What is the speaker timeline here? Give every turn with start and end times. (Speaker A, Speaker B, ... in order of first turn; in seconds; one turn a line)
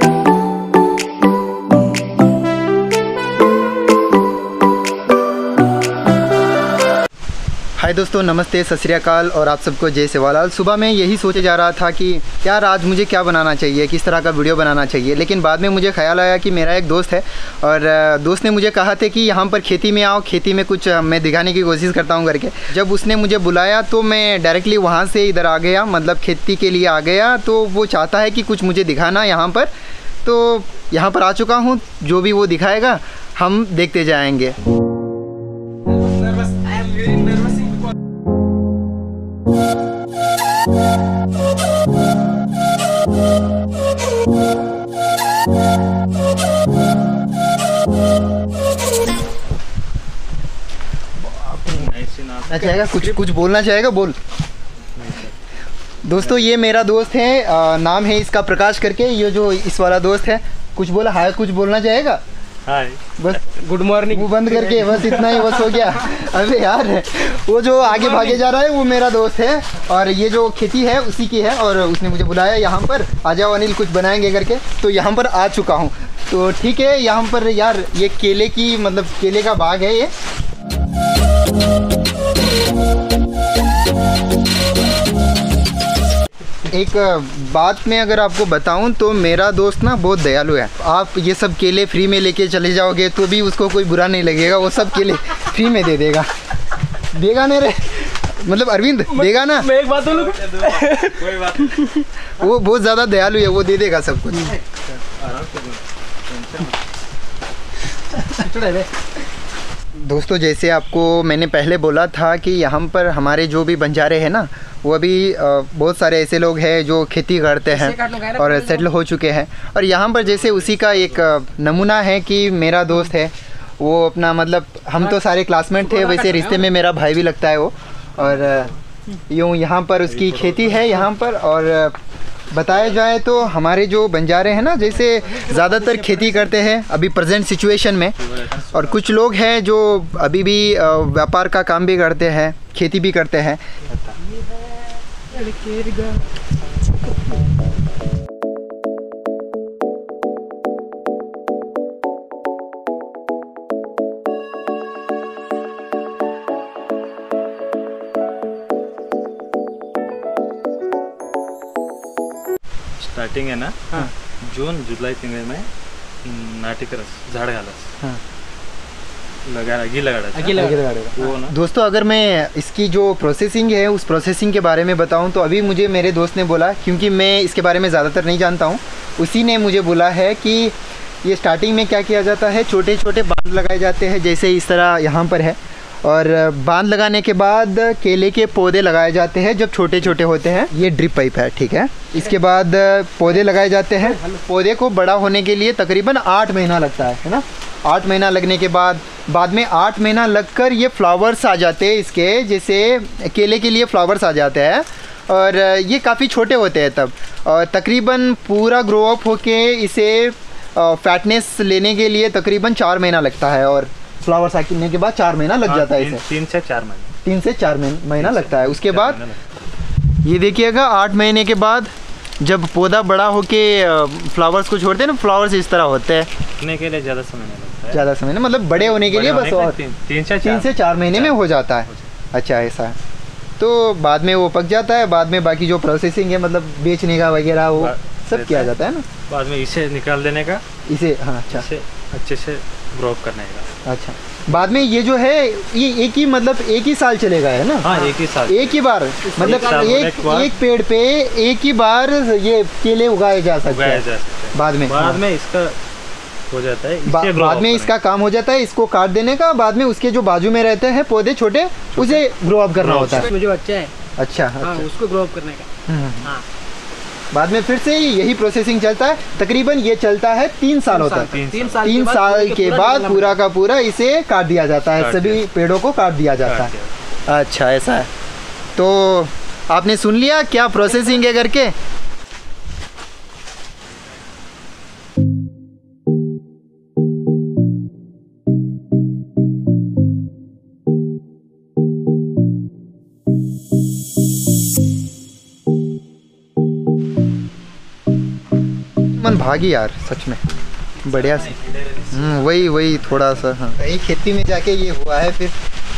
Speaker A: 7.8-29.7
Speaker A: 30.2-34.5
Speaker A: 51.2-51.9
Speaker B: 51.7-53.0
Speaker A: 52.5-54.2
Speaker B: 55.0-55.3
Speaker A: 56.0-62.2
Speaker B: 56.2-56.5
Speaker B: 62.6-63.0
Speaker A: 63.2-63.5
Speaker C: 63.5-65.7
Speaker A: 64.1-80.1
Speaker A: 86.7-96.3
Speaker A: 97.1-99.7
Speaker C: 99.1-102.0
Speaker B: 99.9-101.9
Speaker A: 102.4-104.5
Speaker C: 104.3-104.6
Speaker B: 104.9-106.8
Speaker C: 108.1-108.9
Speaker A: 110.0-128.7
Speaker C: 117.7-118.8
Speaker B: 120.1-121.3
Speaker C: 125.8-126.7
Speaker B: 128.2-128.8
Speaker A: 129.3-132.0
Speaker B: 130.1-131.1
Speaker A: 132.5-138.2
Speaker B: 132.5-133.0
Speaker B: 134.8-135.4
Speaker C: 135.3-136.5
Speaker B: 138.2-139.2
Speaker A: 138.7-143.6
Speaker B: 143.8-144.2
Speaker C: 145.3-146.2
Speaker B: 163.0-165.7
Speaker B: 166.2-167.9
Speaker B: 169.4-171.5
Speaker C: 170.3-170.8
Speaker A: 170.5-216.2
Speaker C: 194.0-194.4
Speaker B: 215.7-217.1
Speaker A: 217.2-219.2
Speaker B: 218.2-219.5
Speaker A: 220.2-226.3
Speaker B: 226.6-228.0
Speaker A: 227.9-229.8
Speaker B: 228.8-232.1
Speaker A: 230.4-232.9
Speaker A: 233.6-239.1
Speaker B: 237.8-238.7
Speaker B: 239.3-240.6
Speaker A: 240.9-241.7
Speaker B: 241.5-243.7
Speaker A: 243.8-247.9
Speaker B: 244.5-244.8
Speaker B: 247.8-248.8
Speaker A: 248.5-255.2
Speaker C: 249.2-249.9
Speaker B: 249.4-250.5
Speaker B: 253.6-255.8
Speaker B: 256.5-257.9
Speaker A: 257.1-263.3
Speaker B: 261.9-262.2
Speaker B: 262.8-263.3
Speaker C: 263.0-263.9
Speaker A: 264.2-264.9
Speaker C: 264.6-265.7
Speaker A: 265.9-266.3
Speaker A: 267.3-276.7
Speaker C: 270.9-273.4
Speaker B: 271.3-271.9
Speaker B: 274.9-275.4
Speaker B: 276.4-276.9
Speaker A: 277.3-278.1
Speaker A: 278.8-281.7
Speaker A: 299.1-300.4
Speaker B: 301.0-303.5
Speaker A: 301.0-301.5
Speaker A: 302.1-305.6